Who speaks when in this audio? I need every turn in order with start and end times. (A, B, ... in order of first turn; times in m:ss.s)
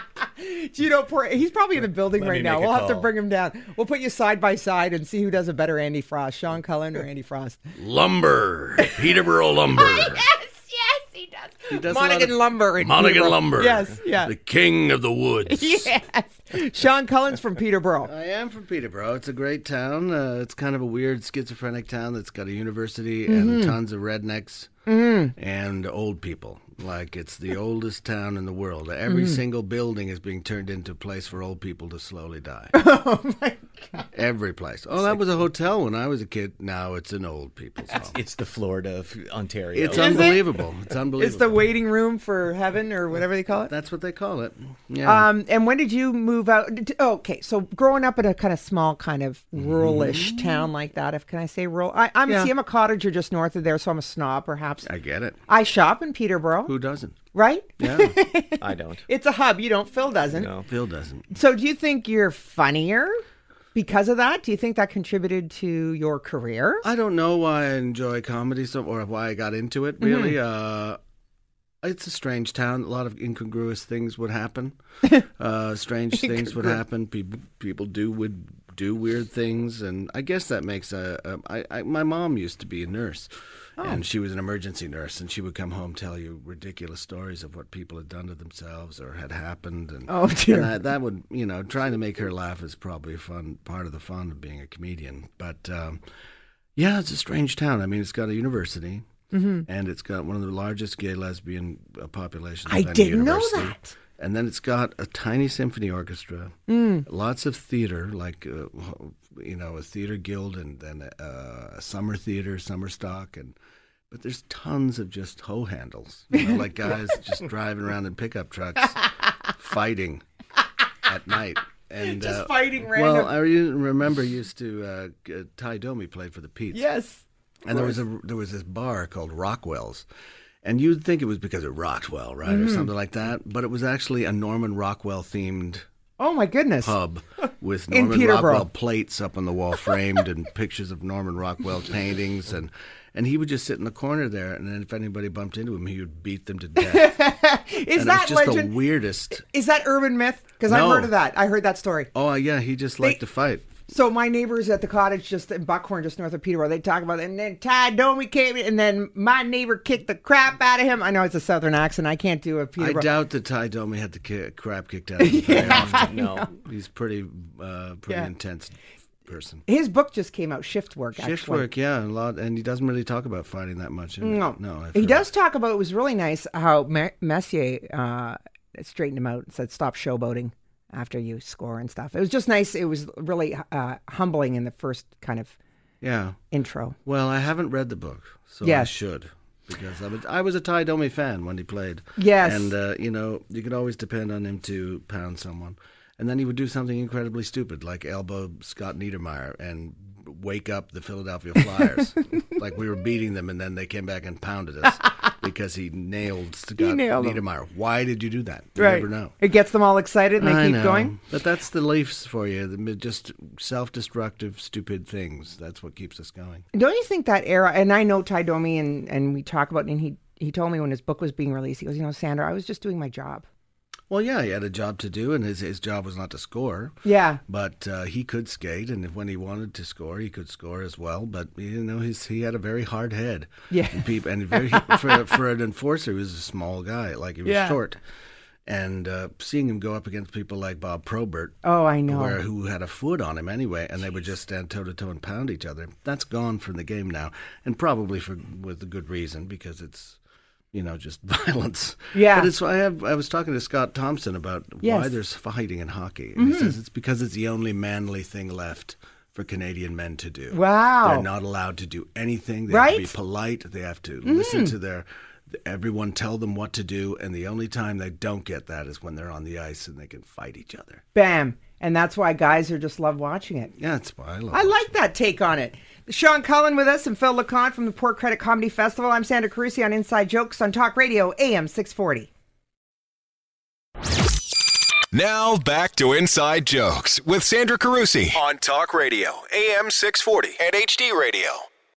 0:00.4-0:07.6 A
0:02.1-0:03.1 B
0:07.7-0:10.2 C
0:08.8-0:09.1 A
0:09.7-0:14.3 A
0:11.7-0:15.9 C
0:15.5-0:18.1 A
0:18.0-0:24.7 C
0:23.3-0:23.8 A
0:24.9-0:25.3 A
0:25.3-0:32.8 C
0:29.1-0:29.4 A
0:32.7-0:34.0 A
0:34.1-0:38.2 C
0:37.9-0:40.3 B
0:39.7-0:41.6 C
0:39.9-0:40.4 A
0:41.2-0:43.7 A
0:43.7-0:45.3 C
0:45.0-0:54.9 A
0:49.6-0:50.7 C
0:52.2-0:52.5 C
0:54.8-0:55.4 C
0:55.5-0:56.7 A
0:56.6-0:57.2 C
0:57.3-1:00.5 A
0:57.8-0:58.2 C
0:58.6-0:59.0 B
1:00.3-1:00.7 B
1:00.6-1:01.3 C
1:01.3-1:03.2 A
1:03.7-1:06.8 A
1:06.8-1:11.0 C
1:10.0-1:10.3 A
1:11.8-1:36.0 C
1:16.2-1:16.8 A
1:30.1-1:30.7 A
1:36.8-1:39.0 C
1:39.3-1:39.6 A
1:39.6-1:53.6 C
1:42.6-1:43.9 A
1:46.7-1:47.0 A
1:54.1-2:00.2 C
2:01.0-2:06.9 C
2:02.0-2:03.3 A
2:06.7-2:08.0 A
2:07.6-2:10.0 C
2:10.6-2:15.8 C
2:12.4-2:12.9 A
2:16.2-2:16.9 A
2:16.8-2:27.2 C
2:17.9-2:18.7 A
2:26.8-2:28.7 A
2:27.9-2:29.4 C
2:29.3-2:32.1 A
2:30.6-2:31.1 C
2:32.1-2:33.7 C
2:33.9-2:43.1 A
2:42.8-2:49.6 C
2:45.2-2:46.5 A
2:45.5-2:46.5 B
2:49.6-2:51.7 A
2:51.1-2:55.3 C
2:54.2-3:05.5 A
3:06.0-3:06.4 C
3:06.5-3:07.0 A
3:07.0-3:29.3 C
3:08.6-3:08.9 A
3:12.2-3:12.7 A
3:26.8-3:27.4 A
3:28.8-3:31.1 A
3:30.4-3:36.6 C
3:36.7-3:43.4 A
3:44.1-3:58.0 C
3:47.0-3:47.4 A
3:53.7-3:55.3 A
3:57.4-3:57.8 A
3:58.6-4:10.2 C
4:01.6-4:02.4 A
4:10.7-4:31.0 C
4:12.1-4:12.5 A
4:14.8-4:15.1 A
4:16.4-4:16.8 A
4:20.5-4:21.3 A
4:22.7-4:23.1 A
4:24.2-4:24.7 A
4:31.1-4:33.7 A
4:33.8-4:34.9 C
4:34.5-4:42.3 A
4:45.1-4:51.6 D